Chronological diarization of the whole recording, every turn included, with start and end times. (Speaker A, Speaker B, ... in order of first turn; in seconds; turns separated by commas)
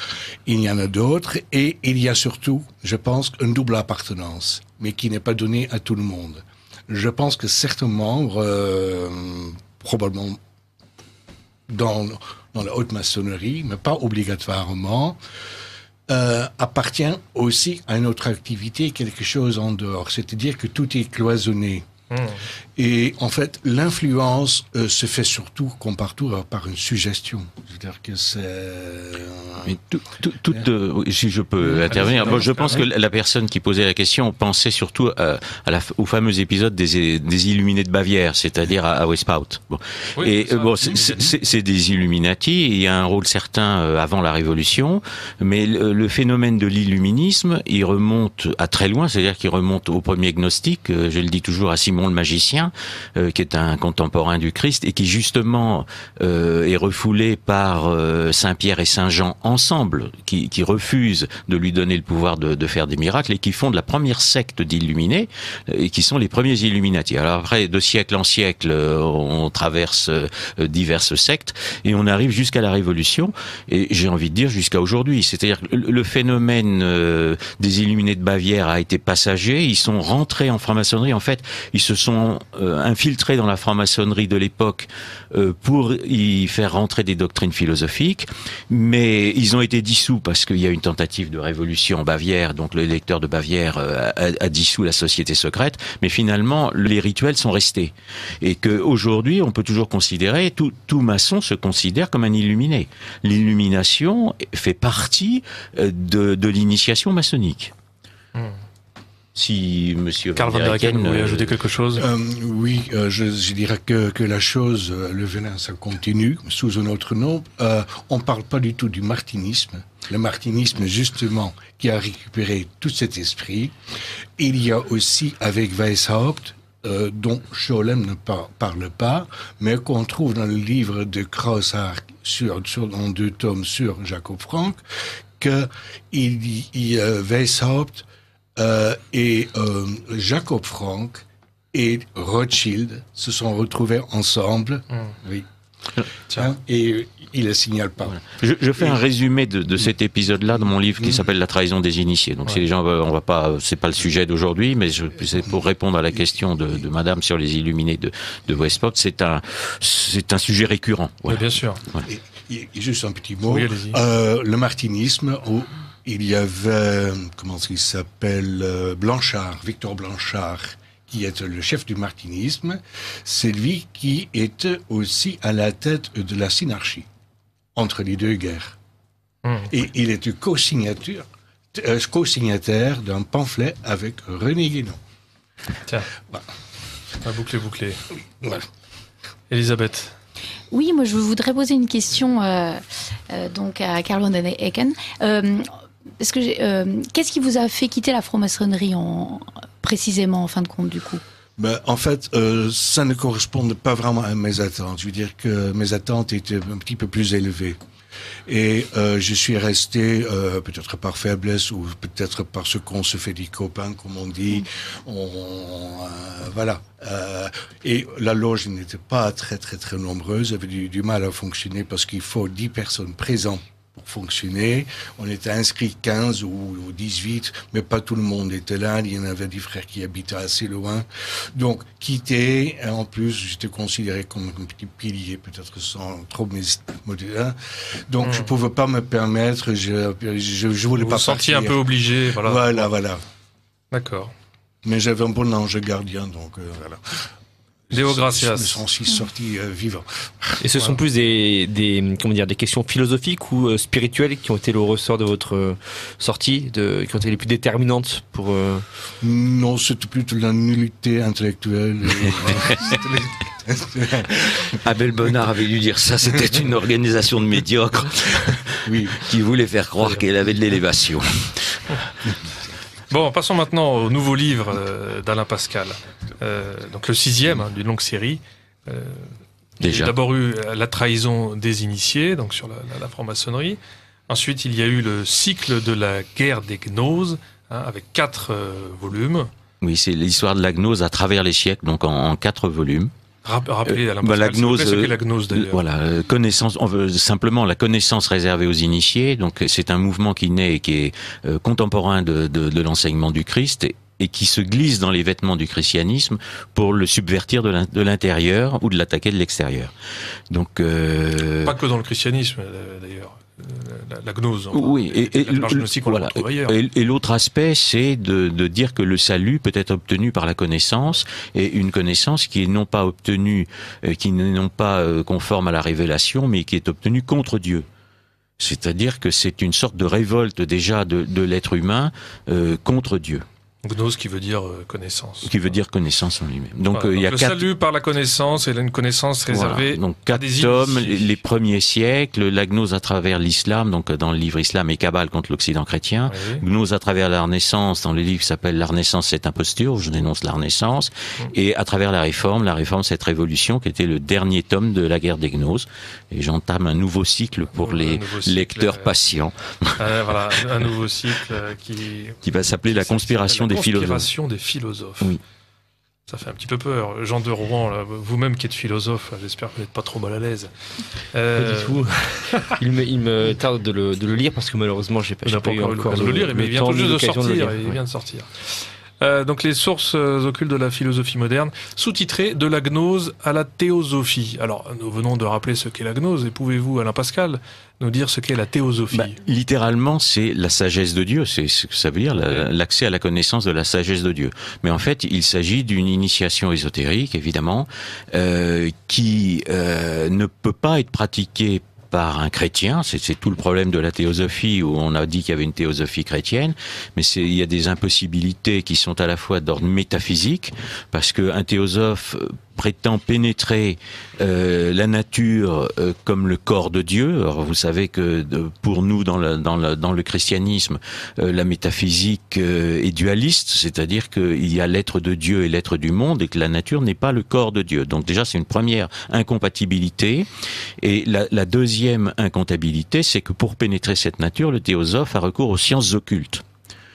Speaker A: 0.5-10.4, Speaker A: 11.7-15.2, Speaker A: 16.1-21.9, Speaker B: 22.1-22.4, Speaker A: 22.8-30.7, Speaker C: 29.7-107.7, Speaker A: 31.7-32.4, Speaker B: 31.9-32.8, Speaker B: 40.1-41.2, Speaker A: 40.8-41.3, Speaker C: 109.3-111.5, Speaker B: 110.4-112.0, Speaker A: 112.0-123.7, Speaker A: 124.4-134.8, Speaker A: 135.4-145.5, Speaker A: 146.3-148.2, Speaker C: 148.2-162.0, Speaker B: 161.3-161.8, Speaker A: 162.1-177.1, Speaker B: 163.5-164.0, Speaker A: 177.7-178.8, Speaker B: 179.4-179.7, Speaker A: 179.7-185.0, Speaker B: 187.2-188.0, Speaker B: 189.5-190.1, Speaker D: 190.7-201.2, Speaker A: 201.6-207.8, Speaker A: 208.4-243.2, Speaker B: 241.0-242.9, Speaker B: 243.9-244.3, Speaker A: 244.8-247.3, Speaker B: 247.9-248.8, Speaker A: 247.9-250.6, Speaker E: 250.6-258.8, Speaker A: 259.2-264.7, Speaker C: 262.3-262.9, Speaker C: 264.6-271.8, Speaker A: 268.8-269.3, Speaker B: 273.1-289.5, Speaker C: 279.8-280.1, Speaker C: 289.8-293.1, Speaker B: 293.4-295.8, Speaker C: 293.9-309.9, Speaker C: 310.5-311.8, Speaker B: 311.6-316.7, Speaker C: 314.7-327.9, Speaker C: 328.6-333.4, Speaker B: 333.8-335.5, Speaker C: 335.4-337.6, Speaker B: 336.9-341.4, Speaker C: 339.5-360.0, Speaker B: 346.3-346.6, Speaker B: 357.7-359.1, Speaker B: 360.0-365.4, Speaker C: 362.4-364.3, Speaker B: 366.3-370.7, Speaker B: 371.3-372.8, Speaker E: 371.6-378.0, Speaker B: 375.4-389.4, Speaker C: 389.1-430.5, Speaker C: 431.0-436.6